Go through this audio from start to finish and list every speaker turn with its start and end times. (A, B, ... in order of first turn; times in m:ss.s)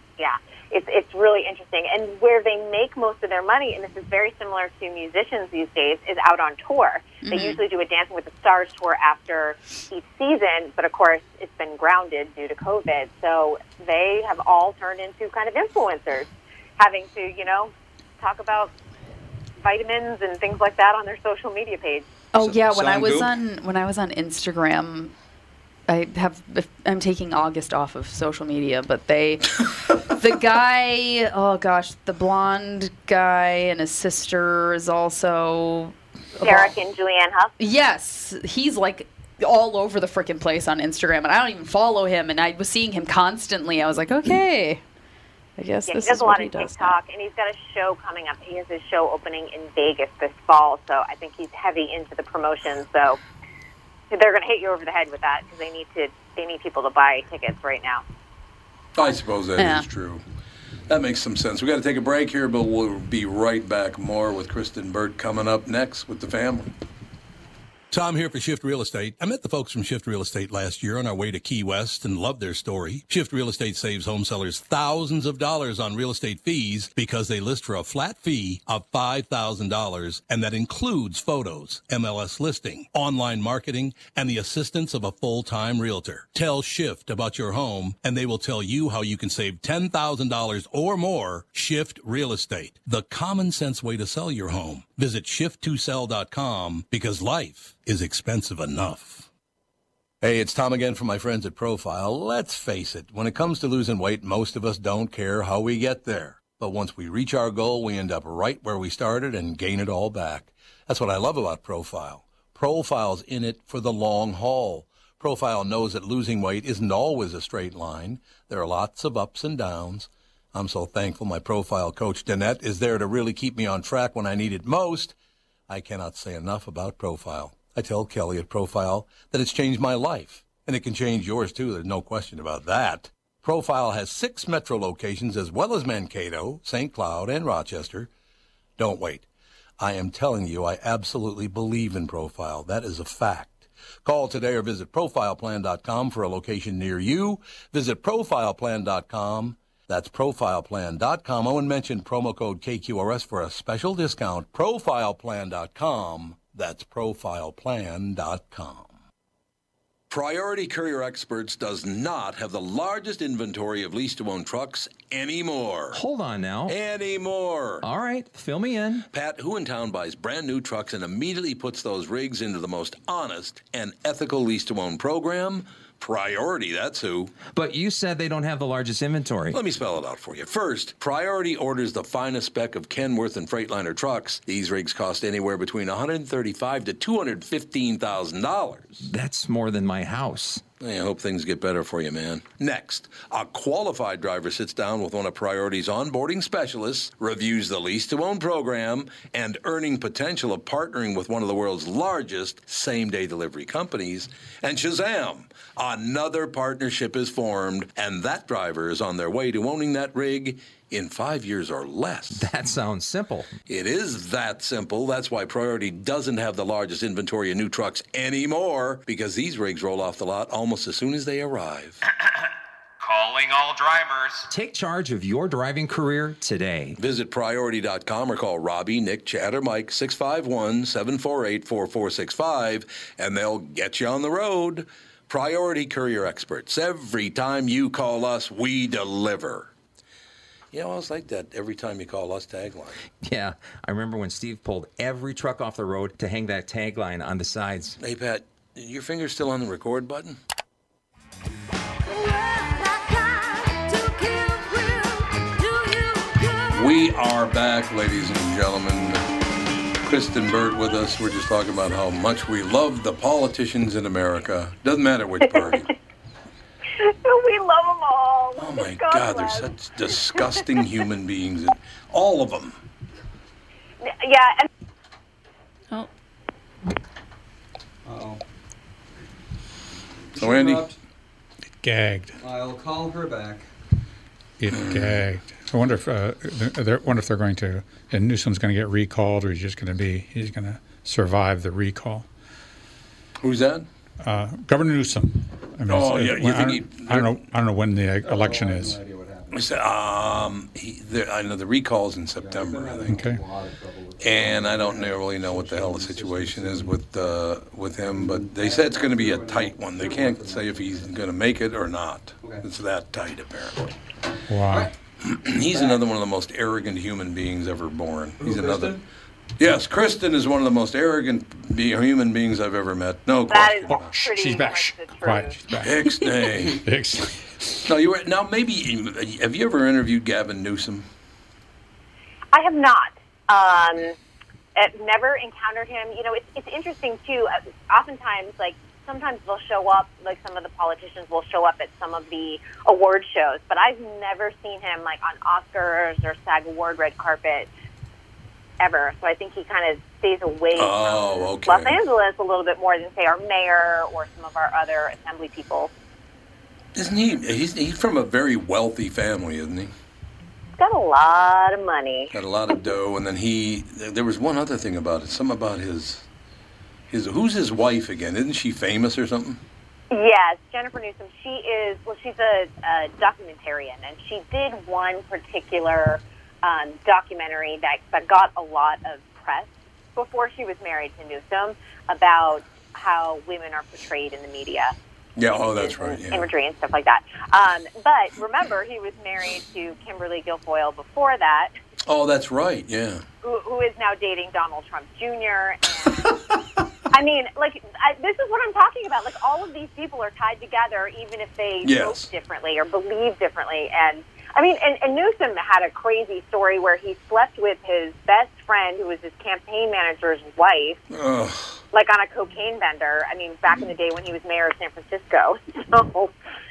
0:00.2-0:18.7 A
0:07.2-0:07.6 B
0:19.6-0:22.1 A
0:22.3-0:25.1 B
0:22.4-0:23.3 C
0:25.9-0:36.7 B
0:36.4-0:37.5 A
0:37.6-0:44.8 B
0:45.6-0:47.0 B
0:45.8-0:53.2 A
0:54.1-0:58.0 A
0:58.9-1:00.2 D
0:59.6-0:59.8 B
1:00.9-1:06.7 D
1:07.9-1:39.3 D
1:40.2-2:05.1 D
2:05.7-2:18.1 D
2:18.8-2:19.2 D
2:19.8-2:38.9 D
2:40.1-2:46.0 D
2:45.9-2:46.7 E
2:46.7-2:47.8 D
2:47.8-2:49.0 E
2:49.1-2:57.3 D
2:57.5-2:59.6 E
2:59.5-3:09.1 D
3:09.0-3:10.6 E
3:10.8-3:32.5 D
3:32.4-3:33.5 E
3:33.7-3:42.0 D
3:43.0-3:47.0 E
3:47.0-3:59.7 D
4:00.7-4:03.0 D
4:03.2-4:08.0 E
4:08.0-4:10.4 D
4:14.0-4:15.0 E
4:16.7-4:19.2 D
4:20.0-4:25.9 D
4:27.0-4:29.7 A
4:28.6-4:32.8 D
4:34.1-4:34.7 A
4:38.0-4:38.4 C
4:40.3-4:41.0 C
4:40.4-4:40.8 D
4:41.8-4:42.4 F
4:42.4-4:43.6 C
4:44.6-4:52.3 F
4:44.7-4:45.2 D
4:53.4-4:53.8 D
4:54.2-4:59.0 F
4:55.9-4:57.3 D
4:58.2-4:59.6 C
4:59.5-5:03.2 D
5:02.4-5:07.2 C
5:03.1-5:03.4 F
5:04.2-5:13.9 D
5:08.1-5:11.1 C
5:14.5-5:14.9 F
5:15.2-5:19.0 D
5:15.7-5:16.0 C
5:18.4-5:19.0 C
5:19.6-5:24.1 D
5:23.5-5:25.6 A
5:23.9-5:27.8 F
5:25.8-5:26.8 D
5:27.8-5:31.0 D
5:32.5-5:34.2 A
5:34.7-5:47.7 A
5:48.8-5:55.9 A
5:50.8-5:52.0 D
5:57.0-5:59.9 D
6:00.8-6:02.3 A
6:02.3-6:06.2 D
6:07.1-6:09.6 D
6:10.1-6:24.9 A
6:25.4-6:26.5 D
6:25.5-6:31.7 A
6:32.0-6:33.2 D
6:33.4-6:36.3 A
6:37.1-6:51.0 A
6:41.8-6:42.3 D
6:51.1-6:51.8 D
6:51.9-6:56.3 A